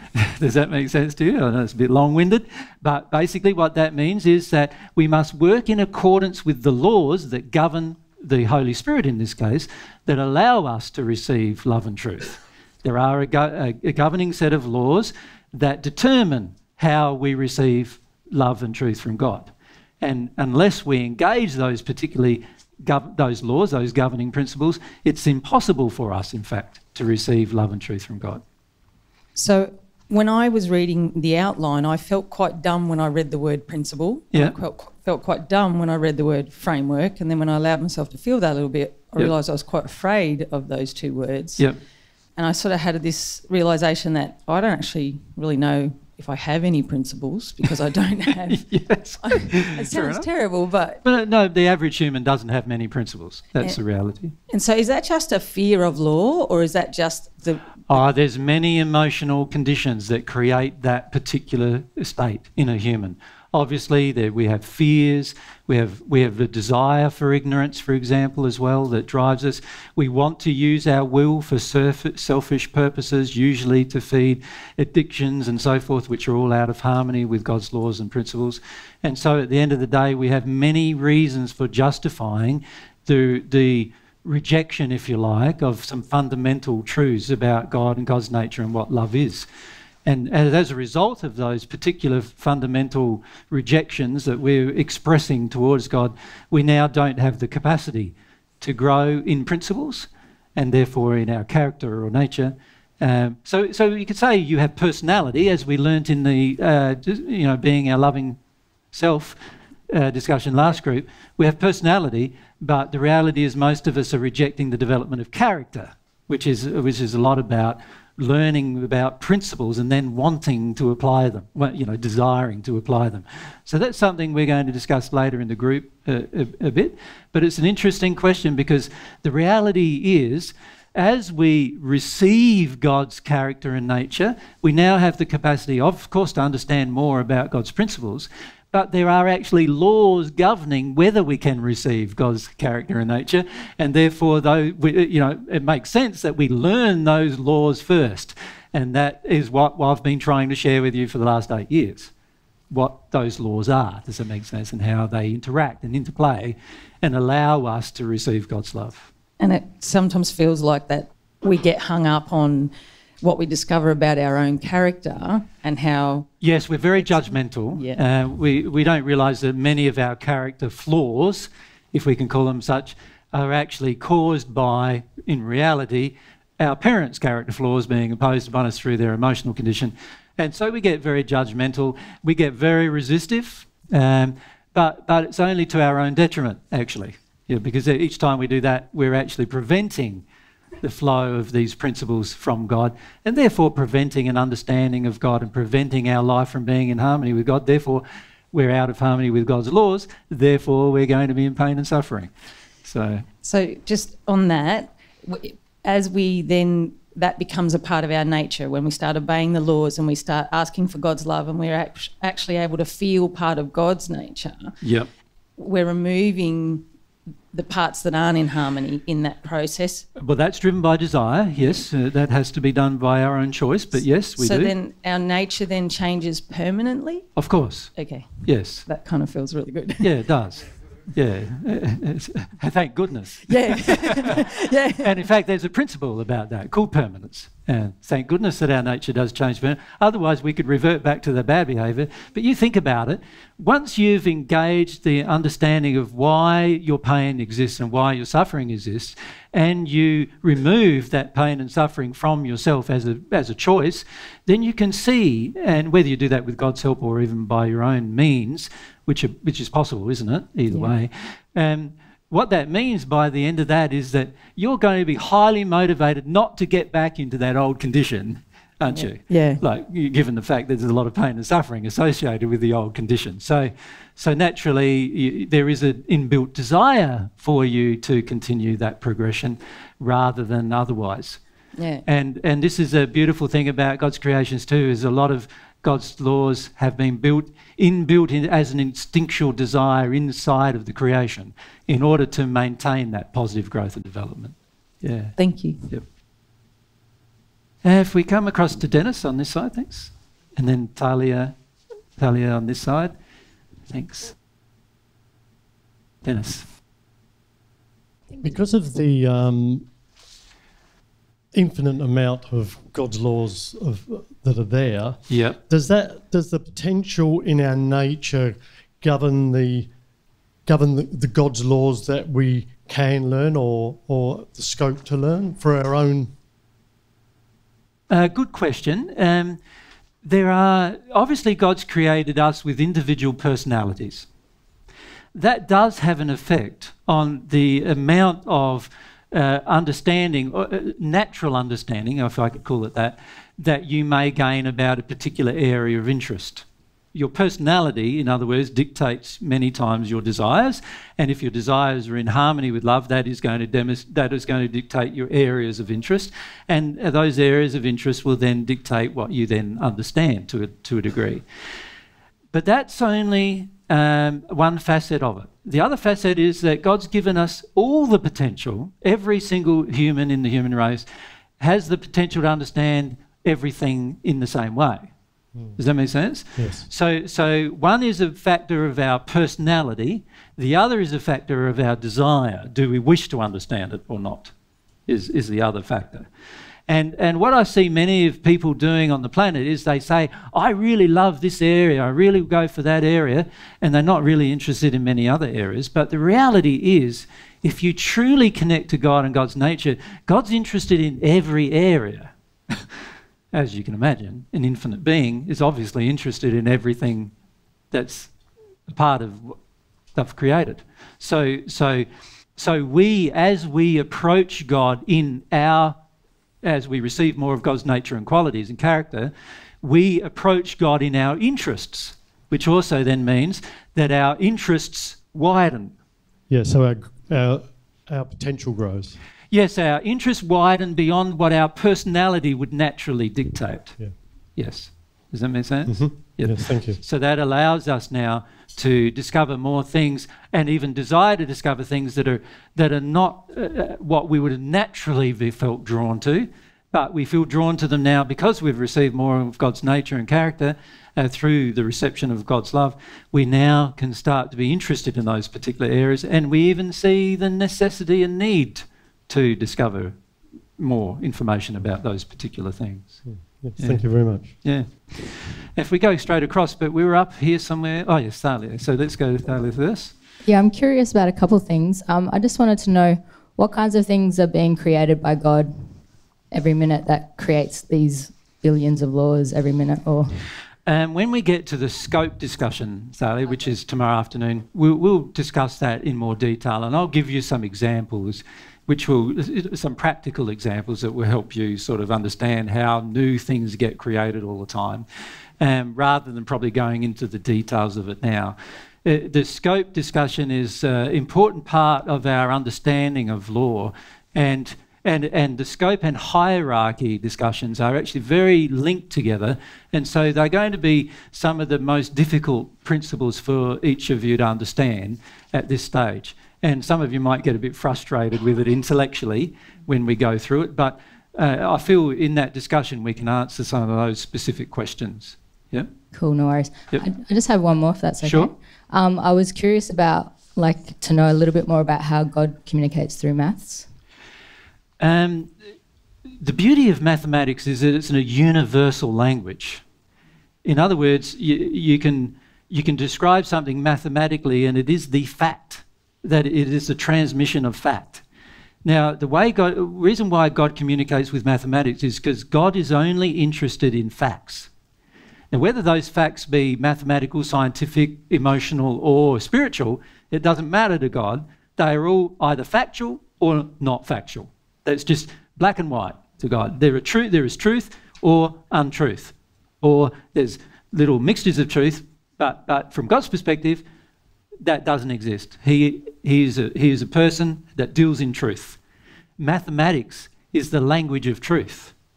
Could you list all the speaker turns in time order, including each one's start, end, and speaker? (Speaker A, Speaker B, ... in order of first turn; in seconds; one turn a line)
Speaker A: 0.1-28.4
Speaker B: 29.3-41.7
Speaker B: 42.4-51.0
Speaker A: 48.5-50.3
Speaker A: 51.0-54.3
Speaker B: 54.5-58.0
Speaker A: 57.9-89.5
Speaker A: 90.0-108.4
Speaker A: 108.9-109.4
Speaker A: 109.9-152.1
Speaker A: 152.7-159.1
Speaker B: 159.4-166.3
Speaker A: 166.4-190.2
Speaker B: 167.0-168.0
Speaker A: 190.8-202.3
Speaker A: 202.8-203.2
Speaker B: 203.4-214.7
Speaker A: 214.8-215.1
Speaker B: 215.6-216.8
Speaker B: 217.5-220.1
Speaker A: 220.2-224.7
Speaker B: 224.4-227.3
Speaker A: 227.4-228.8
Speaker B: 227.9-230.2
Speaker A: 230.0-234.4
Speaker B: 233.5-235.2
Speaker A: 235.0-281.4
Speaker B: 268.9-269.6
Speaker B: 281.8-282.0
Speaker A: 282.1-296.0
Speaker B: 295.4-295.8
Speaker A: 297.8-301.6
Speaker A: 302.2-303.1
Speaker A: 303.9-304.3
Speaker A: 306.2-306.6
Speaker C: 308.4-309.9
Speaker C: 311.5-319.9
Speaker A: 315.3-315.6
Speaker C: 320.6-326.3
Speaker A: 328.1-329.6
Speaker A: 330.2-334.3
Speaker A: 335.3-361.4
Speaker A: 362.5-371.1
Speaker A: 371.6-375.1
Speaker C: 375.5-375.8
Speaker A: 375.8-384.5
Speaker C: 376.6-376.9
Speaker A: 385.1-386.3
Speaker A: 386.9-402.8
Speaker A: 403.5-407.3
Speaker A: 407.9-408.3
Speaker A: 408.9-409.6
Speaker A: 410.1-412.1
Speaker A: 412.6-416.0
Speaker A: 416.6-425.9
Speaker C: 426.5-429.2
Speaker A: 429.5-434.0
Speaker A: 434.6-460.1
Speaker C: 435.9-437.0
Speaker A: 460.8-463.2
Speaker C: 463.2-464.5
Speaker A: 463.8-470.1
Speaker D: 470.4-475.7
Speaker D: 476.5-480.4
Speaker A: 480.9-495.0
Speaker A: 495.6-525.9
Speaker D: 526.1-533.9
Speaker A: 528.2-528.5
Speaker A: 535.0-535.5
Speaker A: 536.4-539.8
Speaker A: 540.6-548.2
Speaker A: 548.8-554.7
Speaker A: 555.5-573.8
Speaker A: 574.6-578.8
Speaker A: 579.4-581.9